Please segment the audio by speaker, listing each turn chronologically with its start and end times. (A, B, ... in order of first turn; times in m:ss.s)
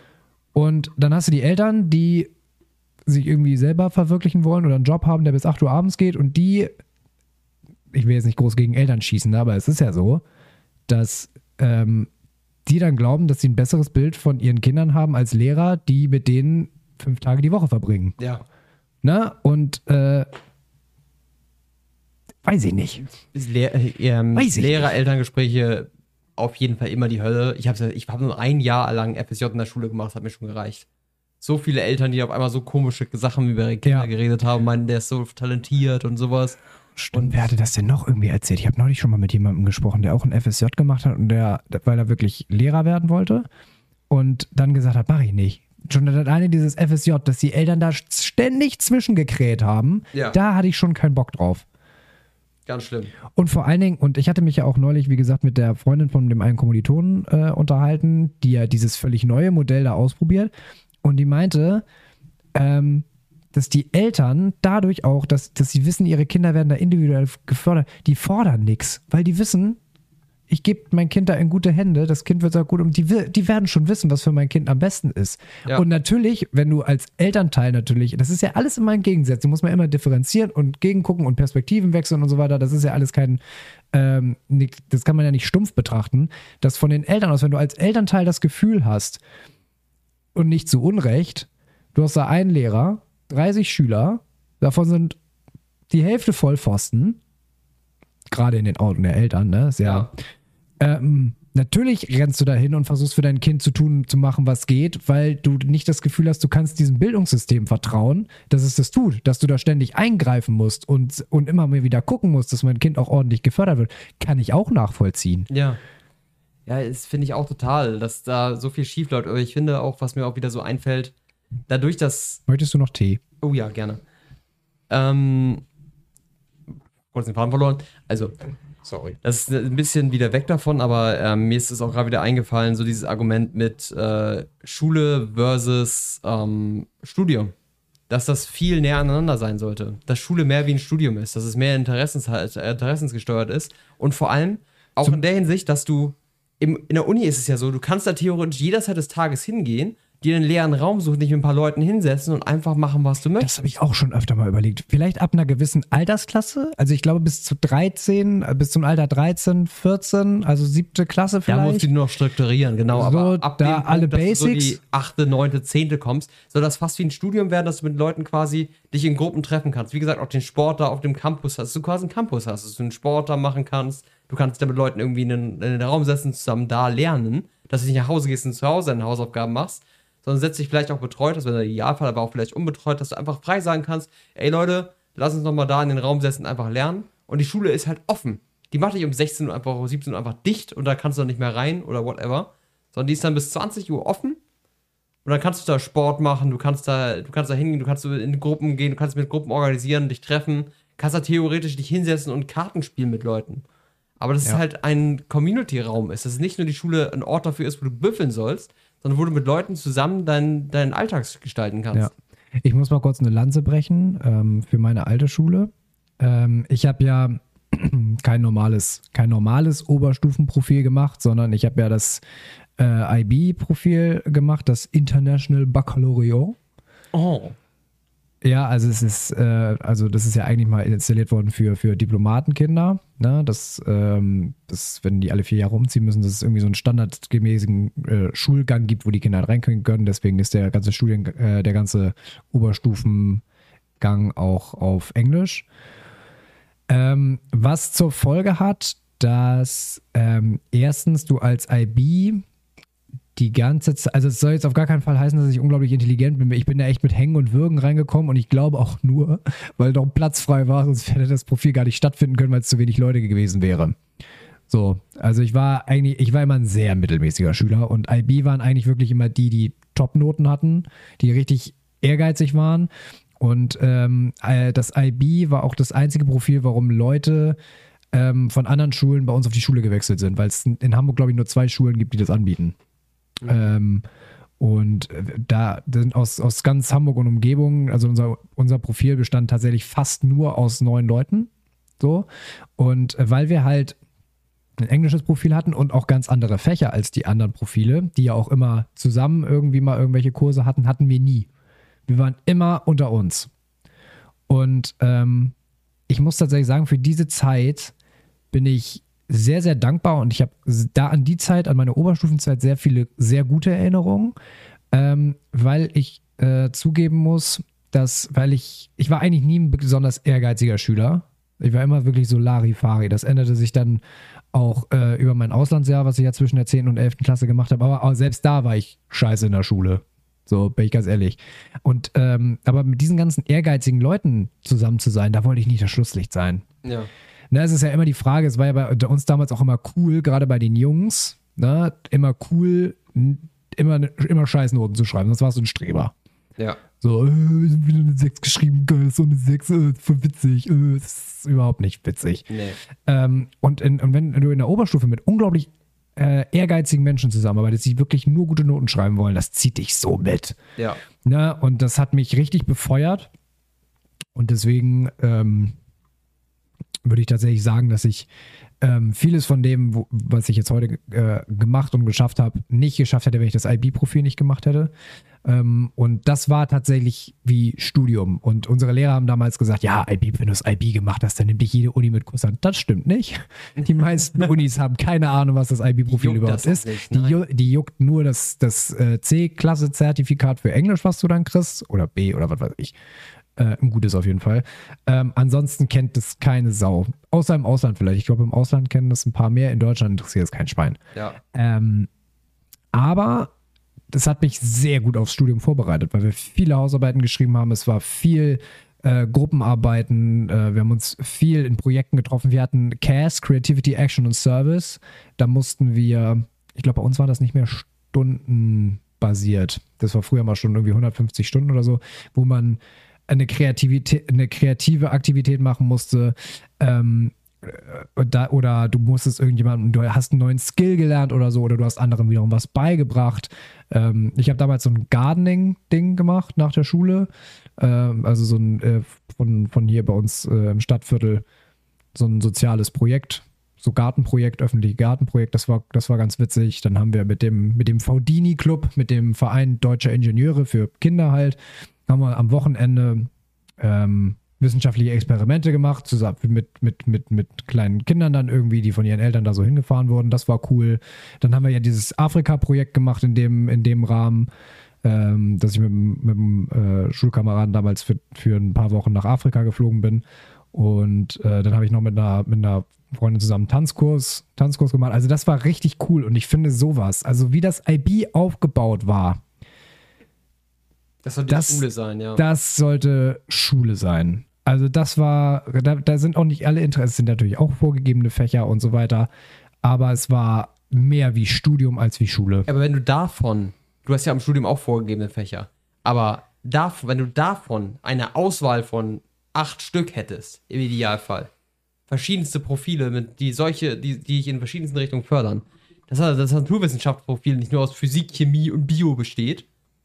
0:00.5-0:02.3 A
0:03.1-0:06.7 A
0:07.9-0:10.2 A
0:10.9-0:12.1 A
0:12.7-0:18.2 A
0:18.2-0:18.4 B
0:19.0-0:20.3 A
0:22.4-0:23.0 A
0:23.0-0:30.9 B
0:24.4-0:24.9 A
0:31.4-0:36.6 B
0:37.0-0:43.5 A
0:44.1-0:51.7 A
0:52.7-0:53.1 B
0:53.3-1:00.5 A
1:01.0-1:01.8 A
1:02.6-1:09.8 A
1:10.5-1:23.4 A
1:23.9-1:29.2 A
1:30.4-1:35.2 A
1:35.9-1:37.2 A
1:38.3-1:40.1 A
1:39.8-1:40.1 B
1:40.8-1:55.5 A
1:55.5-1:55.8 B
1:56.7-2:01.1 B
2:01.7-2:02.4 B
2:02.5-2:03.2 A
2:03.4-2:04.0 B
2:04.9-2:05.6 B
2:07.1-2:08.4 B
2:08.9-2:17.5 B
2:18.1-2:33.7 B
2:33.4-2:41.9 A
2:41.5-3:14.4 B
2:42.9-2:44.8 A
3:15.2-3:23.6 B
3:24.2-3:32.1 B
3:32.6-3:42.2 A
3:42.8-3:46.6 A
3:47.1-3:47.6 B
3:48.4-4:03.4 A
4:04.0-4:05.7 A
4:06.9-4:12.4 A
4:13.4-4:24.0 A
4:24.7-4:37.6 A
4:38.1-4:42.8 A
4:43.4-4:43.7 B
4:43.4-4:44.0 A
4:44.6-4:54.0 A
4:54.8-5:01.5 A
5:02.1-5:03.5 A
5:04.5-5:05.5 A
5:06.1-5:07.9 A
5:08.5-5:14.4 A
5:14.9-5:24.0 A
5:24.5-5:36.6 A
5:36.8-5:37.1 B
5:37.5-5:46.1 A
5:47.0-5:52.5 A
5:52.5-5:52.8 B
5:53.0-6:00.6 A
6:01.2-6:03.3 A
6:04.4-6:05.8 A
6:07.0-6:08.3 A
6:08.8-6:14.9 A
6:15.4-6:33.0 A
6:23.8-6:24.5 B
6:26.1-6:27.4 B
6:33.6-6:41.0 A
6:41.5-6:42.1 A
6:42.9-6:43.5 A
6:44.1-7:17.3 A
7:17.8-7:21.4 A
7:22.2-7:44.5 A
7:45.0-7:59.4 A
8:01.2-8:02.4 B
8:01.5-8:01.8 A
8:02.4-8:09.3 A
8:09.8-8:12.7 A
8:12.7-8:21.5 B
8:22.1-8:29.7 B